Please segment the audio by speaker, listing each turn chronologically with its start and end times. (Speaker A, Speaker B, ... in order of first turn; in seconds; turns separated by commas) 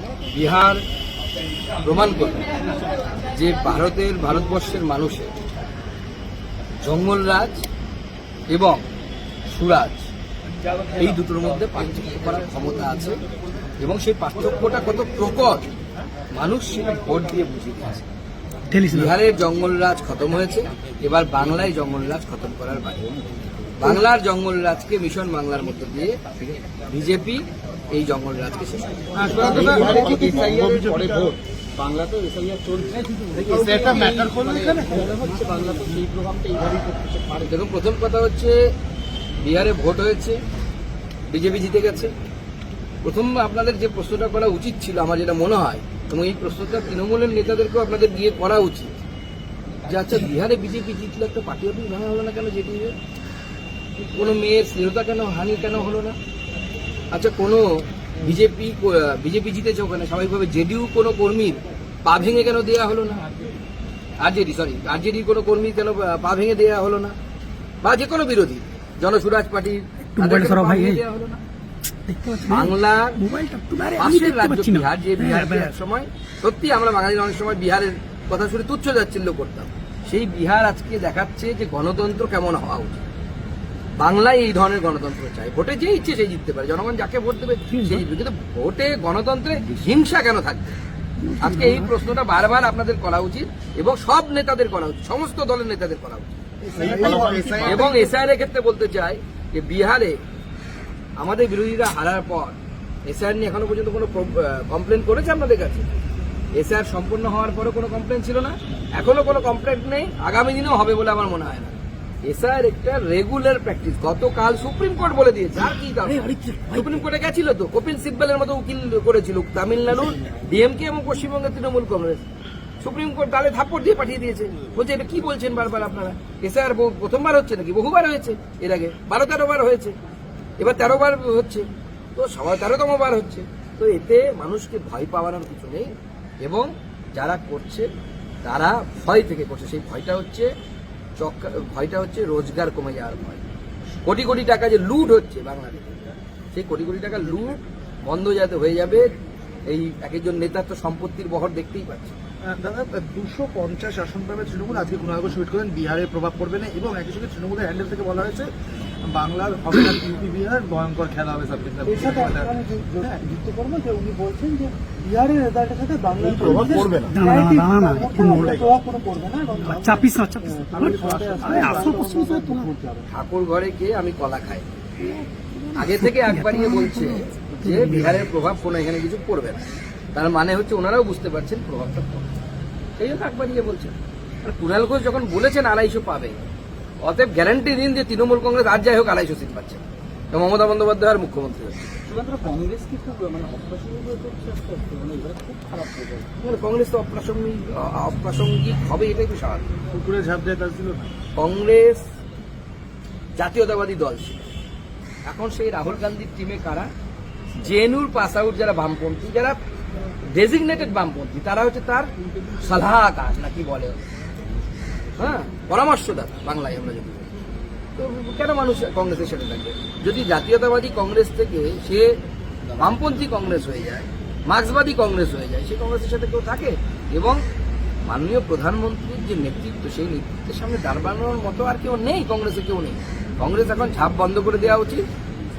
Speaker A: 0.3-0.8, Speaker A: 1.8-2.4, Speaker A: 3.2-5.3, Speaker A: 6.8-7.6, Speaker A: 8.5-8.8, Speaker A: 9.5-10.0, Speaker A: 11.0-13.2, Speaker A: 13.8-15.6, Speaker A: 16.3-18.1, Speaker B: 18.7-19.1, Speaker A: 18.9-23.1, Speaker A: 23.8-30.0, Speaker C: 29.1-31.3, Speaker D: 29.3-37.5, Speaker C: 33.5-35.1, Speaker A: 37.4-38.6, Speaker A: 39.4-40.4, Speaker A: 41.3-42.1, Speaker A: 43.0-49.0, Speaker A: 49.9-52.9, Speaker A: 54.0-56.1, Speaker A: 57.1-57.6, Speaker A: 58.2-63.3, Speaker A: 64.2-67.1, Speaker A: 67.8-71.4, Speaker B: 70.2-71.0, Speaker B: 72.1-75.7, Speaker A: 72.5-73.2, Speaker A: 74.0-83.0, Speaker A: 84.0-90.8, Speaker B: 87.7-88.0, Speaker B: 91.2-91.9, Speaker A: 91.4-100.2, Speaker C: 96.6-97.9, Speaker D: 96.7-97.7, Speaker A: 101.2-105.9, Speaker A: 106.6-111.7, Speaker A: 112.3-122.2, Speaker A: 122.8-129.9, Speaker A: 130.6-135.9, Speaker A: 136.4-137.9, Speaker A: 138.4-140.5, Speaker A: 141.2-143.5, Speaker A: 144.0-146.0, Speaker A: 146.5-149.1, Speaker A: 149.7-152.2, Speaker C: 152.4-158.5, Speaker C: 159.1-163.2, Speaker E: 161.8-173.1, Speaker D: 166.3-166.9, Speaker C: 166.4-166.9, Speaker B: 166.9-168.7, Speaker C: 168.2-168.6, Speaker B: 169.6-172.7, Speaker C: 170.7-172.2, Speaker A: 173.1-174.7, Speaker B: 175.0-178.3, Speaker A: 175.7-182.2, Speaker A: 183.0-186.4, Speaker A: 187.0-191.9, Speaker D: 192.1-196.3, Speaker A: 196.4-199.6, Speaker C: 199.9-201.1, Speaker A: 201.3-202.0, Speaker A: 203.4-204.4, Speaker A: 205.2-206.9, Speaker A: 207.6-209.6, Speaker A: 210.3-214.1, Speaker A: 215.2-217.3, Speaker A: 218.0-222.1, Speaker A: 222.8-227.4, Speaker A: 228.1-235.0